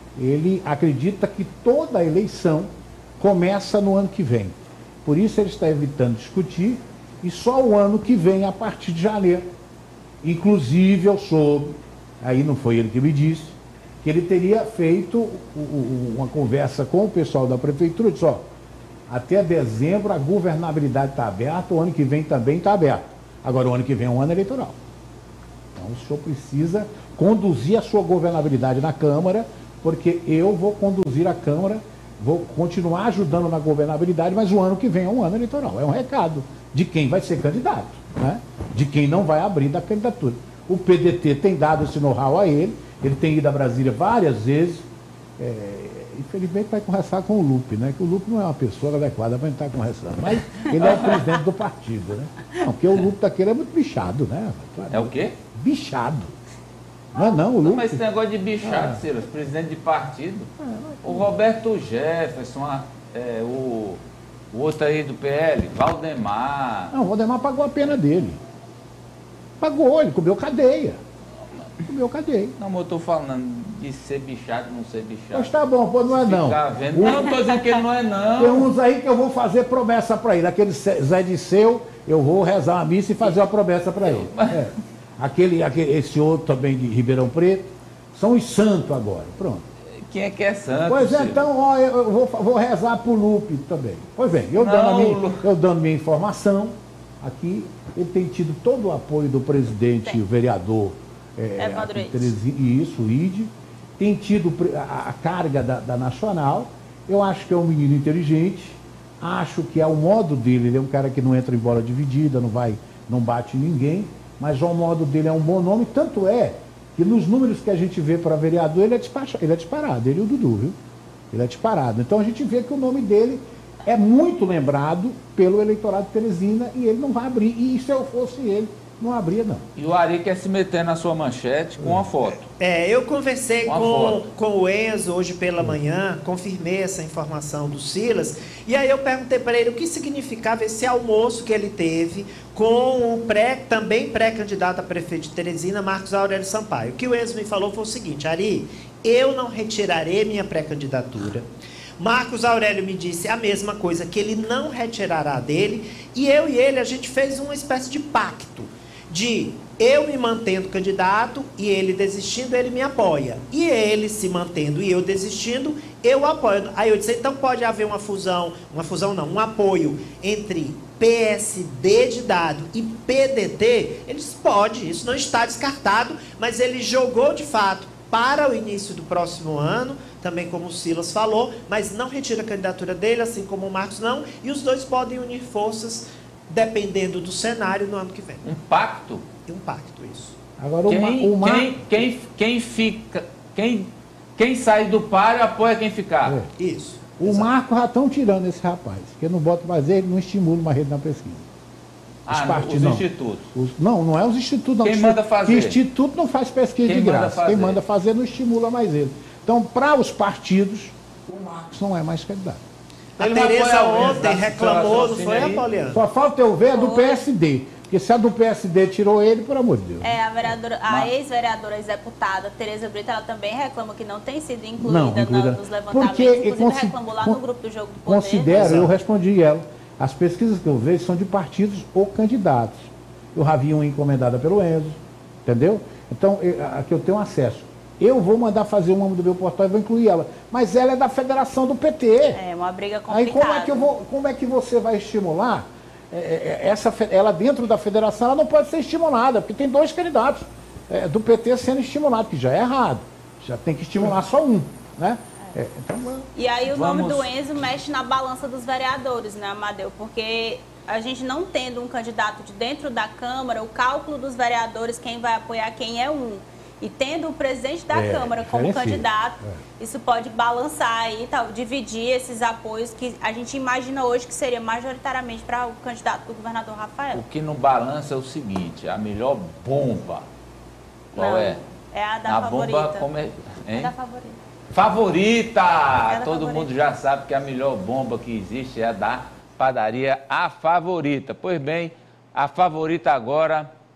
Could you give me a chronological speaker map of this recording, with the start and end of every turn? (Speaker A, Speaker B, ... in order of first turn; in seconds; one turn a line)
Speaker A: 0.1-9.5
Speaker A: 10.2-18.4
Speaker A: 19.1-24.8
Speaker A: 25.7-44.9
Speaker A: 45.4-56.4
Speaker B: 50.8-51.2
Speaker B: 54.9-55.3
Speaker A: 57.1-58.0
Speaker B: 57.6-60.5
Speaker A: 58.6-59.0
Speaker A: 60.6-61.2
Speaker B: 61.0-64.0
Speaker B: 64.5-66.9
Speaker A: 66.9-68.4
Speaker A: 69.6-71.0
Speaker A: 71.8-72.5
Speaker B: 72.6-75.5
Speaker A: 75.3-77.4
Speaker B: 76.1-78.7
Speaker A: 78.4-89.7
Speaker B: 84.0-84.7
Speaker B: 89.9-91.5
Speaker A: 90.8-120.8
Speaker B: 94.5-95.5
Speaker C: 101.6-102.3
Speaker A: 121.3-129.7
Speaker B: 129.8-132.5
Speaker D: 132.6-151.4
Speaker B: 133.7-134.2
Speaker D: 152.0-188.4
Speaker B: 188.4-189.2
Speaker D: 189.5-190.3
Speaker A: 190.6-192.0
Speaker B: 190.9-196.4
Speaker A: 196.2-196.5
Speaker D: 196.6-197.5
Speaker A: 197.2-201.4
Speaker B: 202.2-203.5
Speaker A: 202.3-212.6
Speaker B: 204.8-205.8
Speaker B: 206.8-207.8
Speaker D: 213.2-216.0
Speaker B: 213.2-215.6
Speaker A: 215.9-220.1
Speaker C: 216.7-217.3
Speaker C: 220.0-228.7
Speaker B: 220.8-221.1
Speaker A: 224.8-227.4
Speaker A: 228.1-242.4
Speaker D: 228.5-228.9
Speaker C: 242.3-243.9
Speaker A: 243.1-256.3
Speaker C: 256.3-277.2
Speaker B: 256.6-257.3
Speaker A: 267.9-269.6
Speaker B: 277.1-280.3
Speaker C: 281.1-283.1
Speaker B: 281.1-281.6
Speaker B: 282.2-283.9
Speaker C: 283.7-284.4
Speaker B: 284.7-293.7
Speaker C: 286.1-286.7